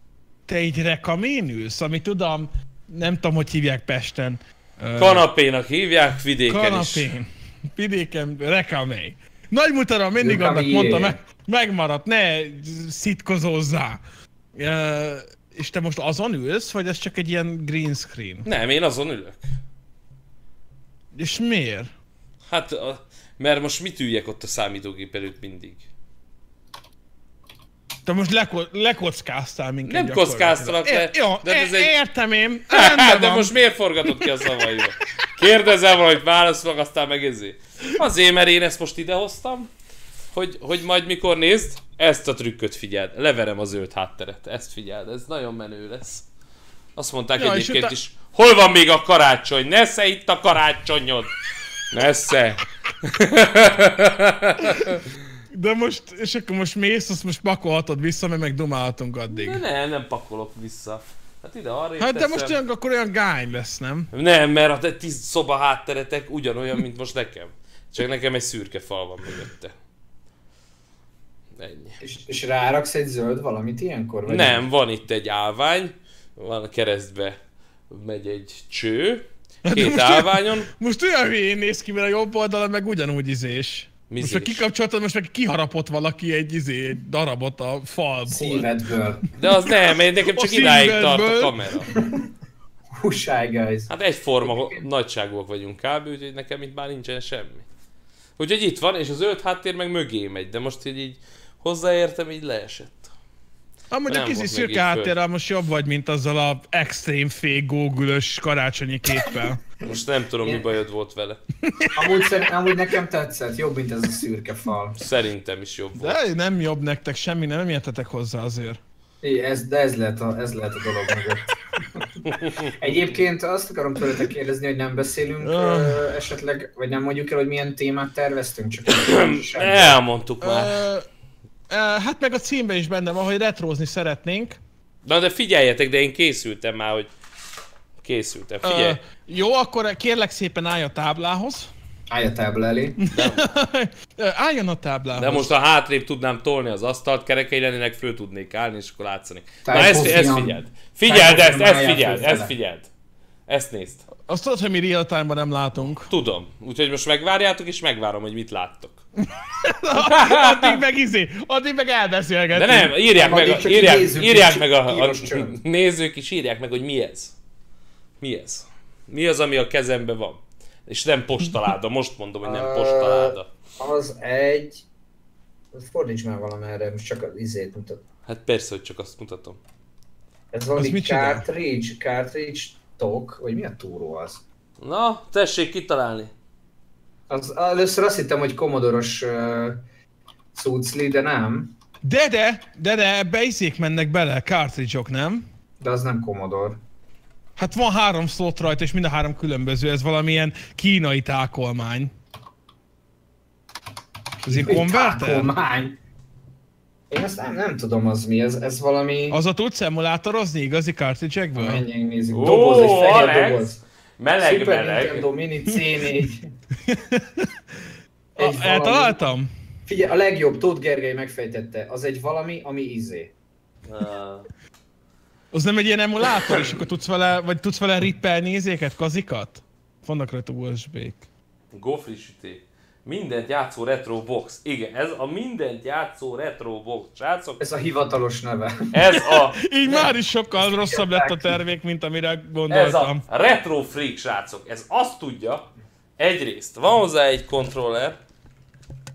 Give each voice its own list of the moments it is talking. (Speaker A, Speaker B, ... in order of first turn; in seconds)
Speaker A: 0.5-5.2, 6.5-14.0, 14.5-18.5, 21.1-21.9, 28.0-33.5, 47.4-47.9, 55.5-59.6, 62.0-64.1, 79.7-88.7, 90.2-91.5, 103.9-109.6, 111.7-112.1, 116.0-118.8, 125.4-126.1, 130.4-131.1, 131.7-134.6, 138.6-141.7, 143.0-145.5, 154.3-156.1, 159.6-162.9, 180.8-181.4, 192.0-195.4, 197.6-202.1, 204.4-205.5, 209.3-211.8, 216.8-217.5, 218.4-219.5, 225.5-231.3, 239.3-243.2
Speaker B: 5.0-7.1, 18.4-19.4, 22.5-25.9, 29.8-31.9, 32.7-39.7, 40.3-46.2, 47.0-51.3, 51.9-55.0, 59.3-62.5, 64.1-69.7, 71.5-72.0, 74.3-77.4, 77.9-80.7, 84.1-84.6, 89.4-91.9, 93.9-97.7, 98.4-103.1, 104.1-105.1, 109.8-111.4, 115.0-116.2, 128.9-130.8, 135.0-137.1, 138.0-139.0, 143.1-143.5, 145.2-152.9, 153.5-154.1, 156.1-159.0, 160.0-160.8, 162.5-167.3, 168.2-173.5, 178.3-179.6, 184.8-186.3, 212.3-215.3, 223.8-224.4, 231.7-237.6, 238.9-239.6, 242.7-245.7, 246.2-248.2
Speaker C: 10.2-11.2, 72.0-74.6, 88.3-89.2, 91.9-92.2, 92.9-93.9, 94.4-94.8, 111.9-115.0, 119.2-130.0, 142.1-143.0, 149.6-152.5, 163.1-165.6, 172.4-174.8, 175.7-178.0, 180.5-184.4, 187.3-189.8, 190.5-191.7, 195.8-196.8, 204.4-206.0, 207.1-209.4, 211.6-213.8, 214.4-216.5, 218.4-219.2, 219.9-223.3, 237.6-238.8, 239.9-241.6